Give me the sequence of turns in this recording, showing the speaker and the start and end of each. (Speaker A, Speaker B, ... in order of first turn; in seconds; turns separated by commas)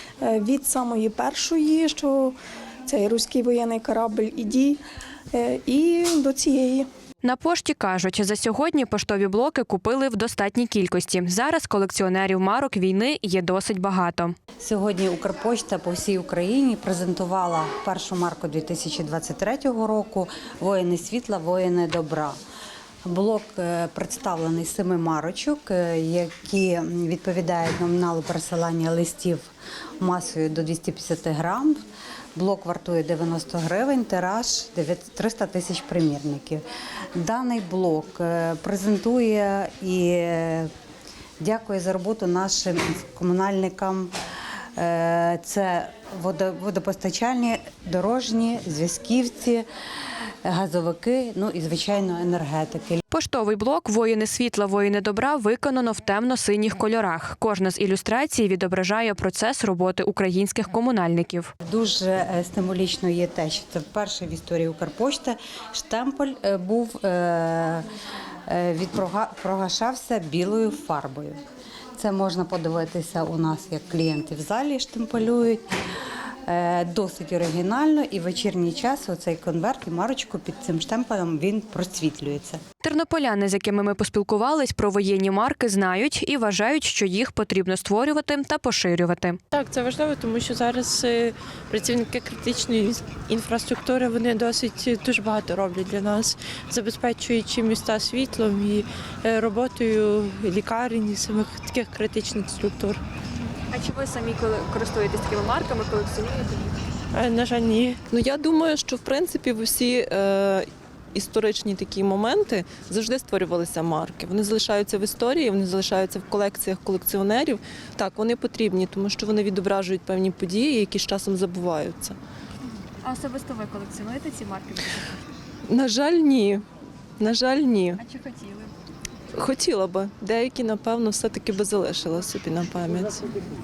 Speaker A: 0.2-4.8, Speaker A: 5.3-6.9, Speaker B: 7.2-14.3, Speaker C: 14.6-22.4, Speaker C: 23.1-31.8, Speaker C: 32.4-36.6, Speaker C: 37.1-40.7, Speaker C: 41.4-44.1, Speaker C: 44.8-49.6, Speaker C: 50.4-53.0, Speaker B: 53.1-61.5, Speaker C: 61.6-67.8, Speaker C: 68.5-71.4, Speaker C: 72.0-75.6, Speaker C: 76.4-82.6, Speaker B: 82.8-89.4, Speaker D: 89.5-103.0, Speaker B: 103.7-106.8, Speaker D: 107.1-108.0, Speaker E: 108.1-122.2, Speaker B: 123.0-125.2, Speaker E: 125.7-126.6, Speaker E: 127.2-128.0, Speaker B: 128.0-128.7, Speaker E: 129.3-133.4